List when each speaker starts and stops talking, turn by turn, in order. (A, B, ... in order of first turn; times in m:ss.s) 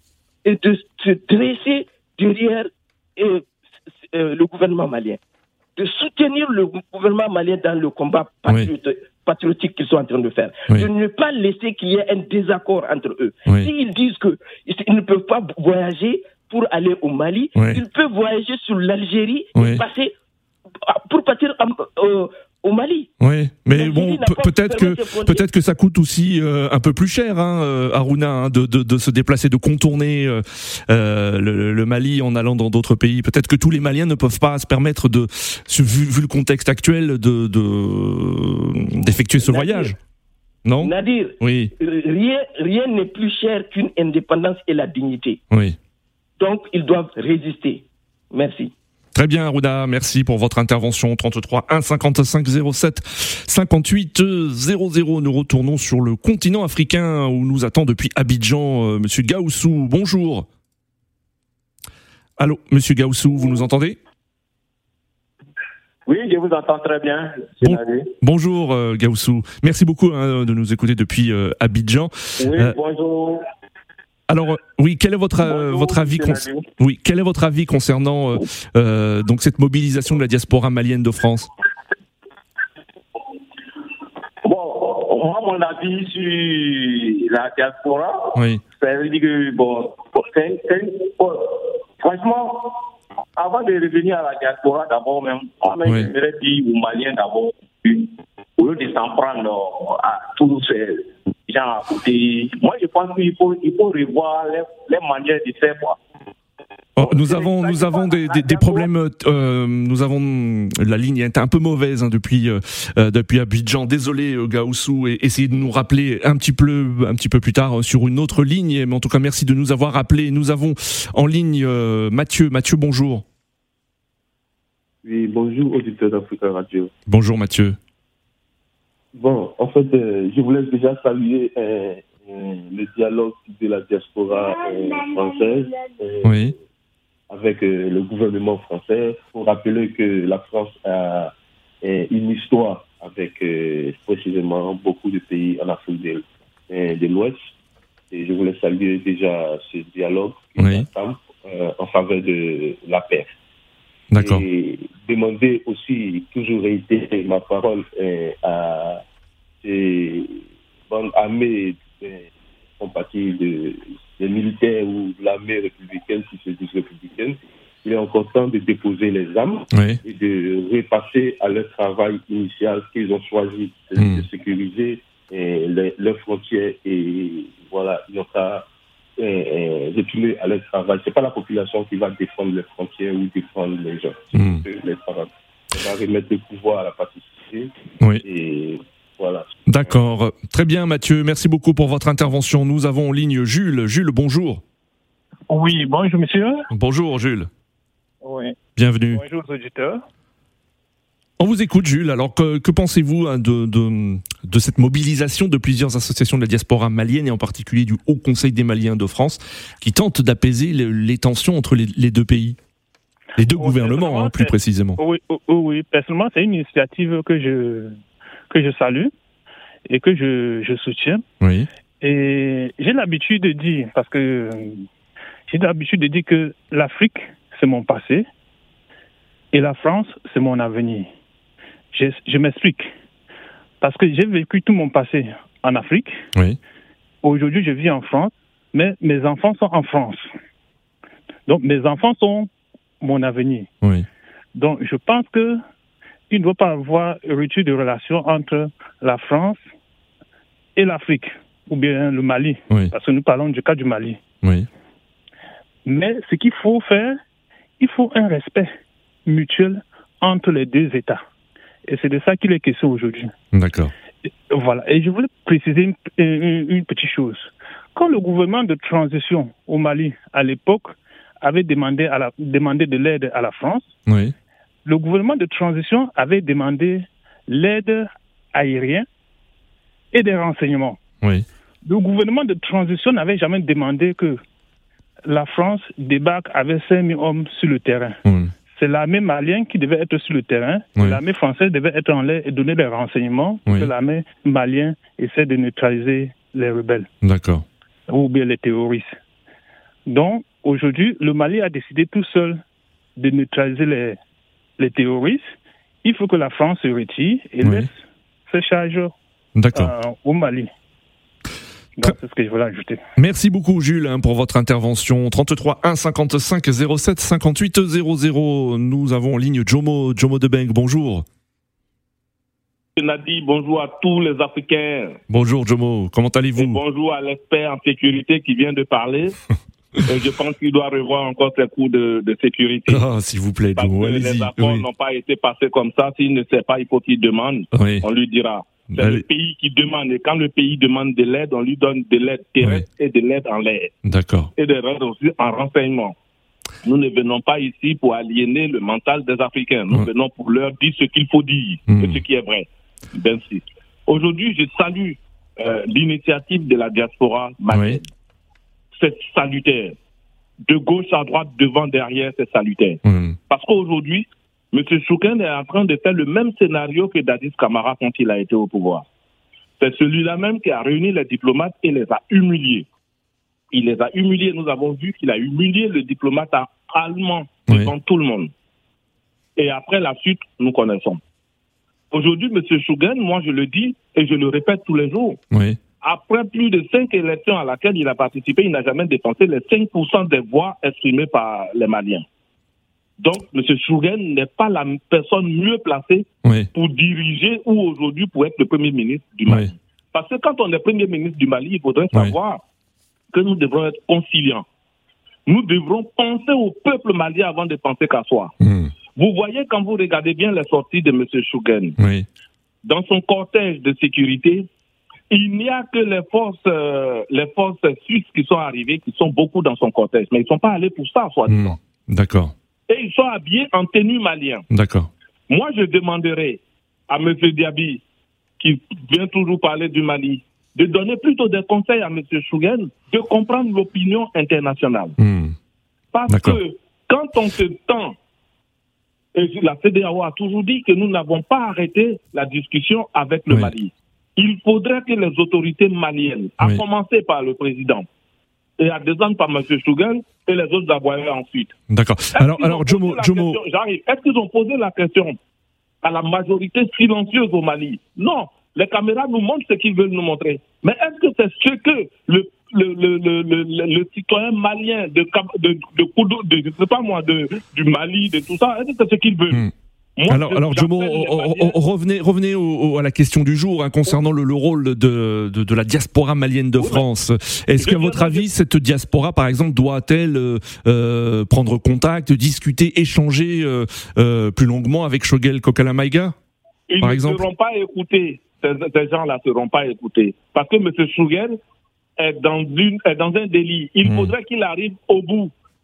0:00.4-0:03.4 A
0:04.1-0:05.2 A
0:05.8-0:20.1 A
0:17.5-0:17.8 B
0:19.5-0:19.8 B
0:20.8-0:23.1 A
0:23.2-0:40.0 B
0:23.7-0:25.4 A
0:39.4-0:39.9 A
0:40.6-0:41.7 B
0:40.8-0:45.4 A
0:45.5-0:45.8 B
0:46.4-0:48.7 A
0:49.1-1:00.4 B
1:02.4-1:04.0 B
1:06.0-1:08.1 C
1:07.6-1:12.8 B
1:12.4-1:13.4 C
1:14.3-1:21.5 B
1:15.4-1:16.7 C
1:24.4-1:32.8 C
1:28.3-1:28.6 B
1:33.4-1:46.0 C
1:35.8-1:36.1 B
1:47.0-2:03.2 B
1:47.0-1:48.9 C
2:05.0-2:06.9 D
2:07.1-2:07.8 B
2:09.1-2:16.5 D
2:16.2-2:16.5 B
2:17.3-2:27.5 D
2:28.1-2:33.3 D
2:30.6-2:30.9 B
2:34.1-2:34.4 B
2:34.2-2:39.0 D
2:39.6-2:58.7 D
2:49.7-2:50.0 B
2:54.0-2:54.2 B
2:59.2-3:07.7 D
3:04.3-3:04.6 B
3:08.2-3:10.0 D
3:09.6-3:14.6 B
3:15.5-3:16.7 E
3:16.7-3:17.5 B
3:18.2-3:18.6 E
3:18.8-3:19.2 B
3:19.1-3:20.0 E
3:21.4-3:32.6 B
3:33.4-3:35.0 B
3:33.5-3:38.0 E
3:38.5-3:39.1 E
3:39.9-3:41.2 E
3:41.4-3:41.7 B
3:42.0-3:44.8 E
3:45.5-3:48.3 E
3:49.5-3:51.1 E
3:51.9-3:52.9 E
3:53.8-3:56.2 E
3:57.2-4:00.3 E
4:01.5-4:02.5 E
4:03.0-4:03.7 E
4:04.5-4:05.6 E
4:06.3-4:09.6 E
4:10.8-4:14.2 E
4:14.4-4:14.7 B
4:15.8-4:17.2 E
4:17.8-4:18.7 E
4:19.2-4:21.2 E
4:21.9-4:23.3 E
4:23.5-4:23.9 B
4:24.2-4:33.9 E
4:34.1-4:34.3 B
4:34.8-4:39.0 E
4:40.1-4:41.0 E
4:41.2-4:41.4 B
4:41.8-4:44.4 E
4:45.2-4:48.2 E
4:48.2-4:48.5 B
4:48.7-4:57.1 E
4:57.2-4:57.6 B
4:58.1-4:59.2 E
5:00.1-5:02.6 E
5:03.2-5:04.2 E
5:04.8-5:05.5 E
5:06.0-5:09.1 E
5:07.6-5:07.9 B
5:09.6-5:09.9 B
5:09.7-5:10.7 E
5:12.0-5:13.0 E
5:13.2-5:21.2 B
5:23.0-5:25.2 F
5:25.3-5:26.8 B
5:26.6-5:29.4 F
5:30.0-5:33.0 F
5:32.9-5:34.8 B
5:33.8-5:43.9 F
5:37.7-5:38.0 B
5:38.9-5:39.2 B
5:44.0-5:44.5 B
5:44.6-5:46.2 F
5:46.8-5:58.1 F
5:51.9-5:52.2 B
5:57.7-5:58.0 B
5:58.9-6:00.0 F
6:00.6-6:09.0 F
6:03.0-6:03.4 B
6:09.8-6:12.9 F
6:13.7-6:18.5 F
6:19.6-6:21.2 F
6:22.1-6:25.4 F
6:25.5-6:25.8 B
6:26.0-6:32.2 F
6:33.2-6:42.6 F
6:36.4-6:36.7 B
6:43.3-6:44.6 F
6:45.5-6:48.5 F
6:48.6-6:48.9 B
6:49.1-6:52.0 F
6:52.0-6:52.3 B
6:52.8-6:54.7 F
6:55.3-7:01.8 F
7:01.5-7:02.5 B
7:02.9-7:04.6 F
7:04.7-7:05.1 B
7:05.5-7:08.0 F
7:08.6-7:15.1 F
7:15.2-7:15.6 B
7:16.1-7:18.2 F
7:16.3-7:16.6 B
7:19.3-7:28.1 F
7:28.8-7:31.7 F
7:31.9-7:33.6 B
7:32.3-7:35.4 F
7:36.0-7:49.6 F
7:50.2-7:51.8 F
7:50.3-8:06.3 B
7:56.8-7:57.0 F
7:57.7-7:58.5 F
8:06.9-8:11.6 F
8:07.0-8:07.4 B
8:12.2-8:15.5 F
8:14.0-8:14.3 B